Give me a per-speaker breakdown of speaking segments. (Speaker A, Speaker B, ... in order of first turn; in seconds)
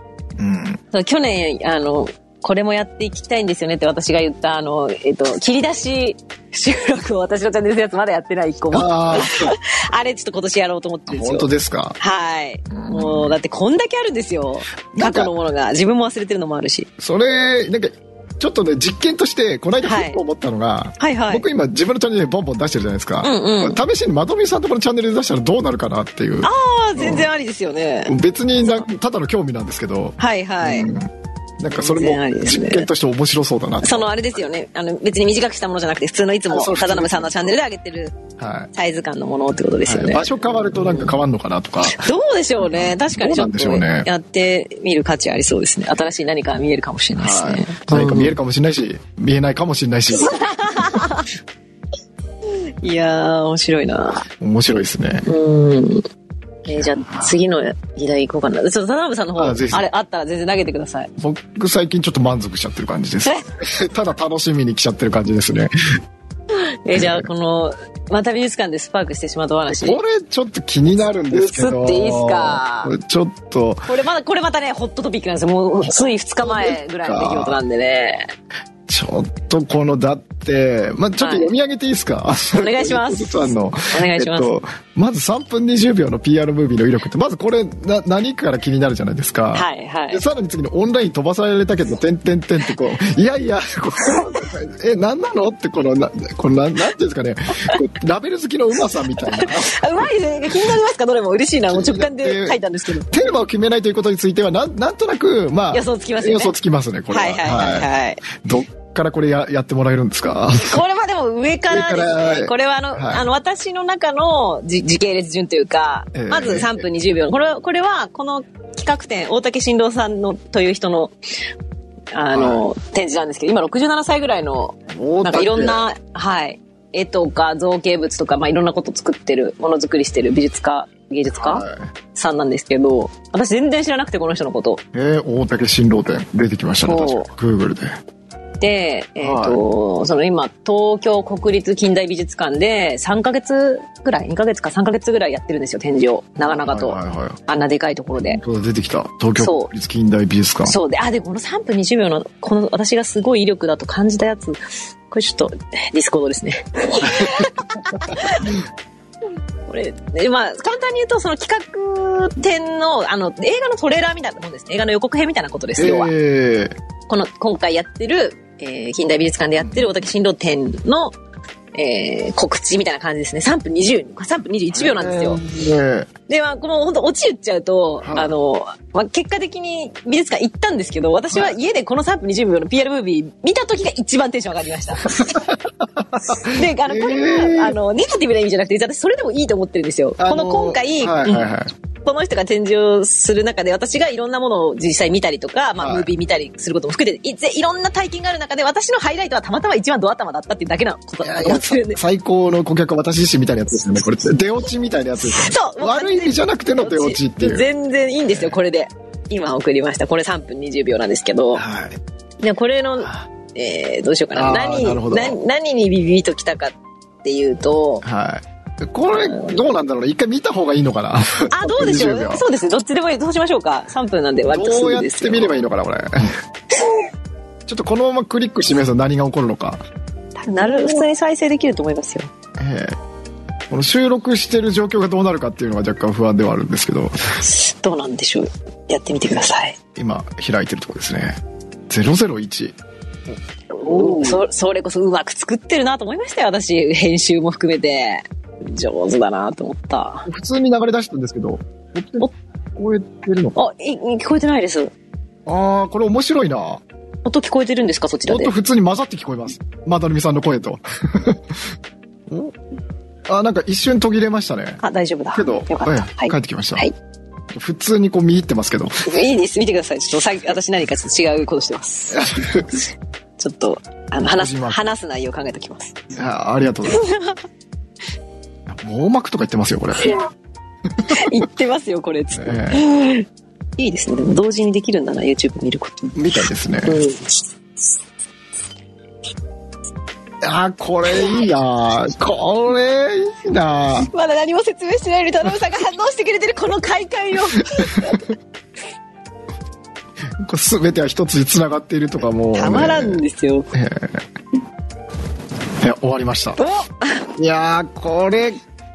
Speaker A: 0.4-0.8, 8.7-9.5, 11.1-11.9, 12.7-13.3, 14.9-15.3, 17.0-27.3, 28.1-34.4, 36.5-37.6, 38.4-38.7, 39.8-42.0, 42.6-44.1, 47.2-51.0, 54.4-55.2, 56.7-57.3, 59.4-59.9, 61.2-65.7, 66.9-67.3, 69.7-73.9, 75.8-77.6, 78.9-99.8, 101.7-110.8, 111.7-113.2, 116.1-116.9, 122.3-122.6, 124.9-125.8, 131.3-131.9, 134.9-137.9, 139.2-139.6, 146.4-147.4, 148.2-150.8, 157.2-157.4, 165.8-166.8, 169.6-170.1, 174.7-176.1, 178.0-178.3, 185.1-187.8, 190.2-191.7, 195.8-196.1, 201.2-207.7, 208.3-208.6, 211.5-212.0, 214.3-215.4, 218.0-222.4, 224.4-226.4, 227.7-229.8, 230.6-231.0, 232.6-233.0, 233.7-237.1, 239.9-242.8, 243.8-244.4, 250.2-253.6, 255.4-256.8, 258.3-261.6, 262.3-262.5, 263.3-264.8, 265.3-266.9, 267.5-269.1, 272.1-272.8, 274.3-274.8, 276.1-277.0, 278.7-280.2, 281.0-281.4, 282.3-282.9, 286.1-287.0, 290.4-294.1, 297.7-298.2, 300.4-304.2, 305.8-306.6, 307.4-308.6
Speaker B: 0.9-16.9, 19.8-20.2, 21.0-21.4, 23.2-23.8, 26.4-28.9, 30.2-30.9, 31.7-32.9, 33.8-38.1, 38.7-41.1, 41.8-48.3, 50.1-51.3, 52.8-54.3, 55.2-56.0, 56.6-61.1, 66.5-70.0, 71.3-72.9, 73.8-78.3, 81.2-81.5, 82.5-84.5, 89.5-90.2, 99.2-103.1, 105.7-106.5, 107.1-108.2, 110.6-121.1, 122.1-134.8, 136.8-137.3, 138.6-148.4, 149.4-149.7, 150.6-158.6, 159.7-166.1, 167.1-171.2, 171.7-175.4, 176.3-185.5, 186.3-191.5, 192.0-202.0, 205.2-211.6, 212.4-218.0, 219.1-219.6, 221.5-225.5, 230.4-232.3, 237.4-239.8, 243.8-250.3, 253.5-254.9, 257.2-258.5, 264.8-266.9, 269.1-272.2, 273.4-275.9, 276.9-277.4, 281.0-286.1, 286.9-287.4, 294.0-298.3, 302.5-303.7, 306.6-307.3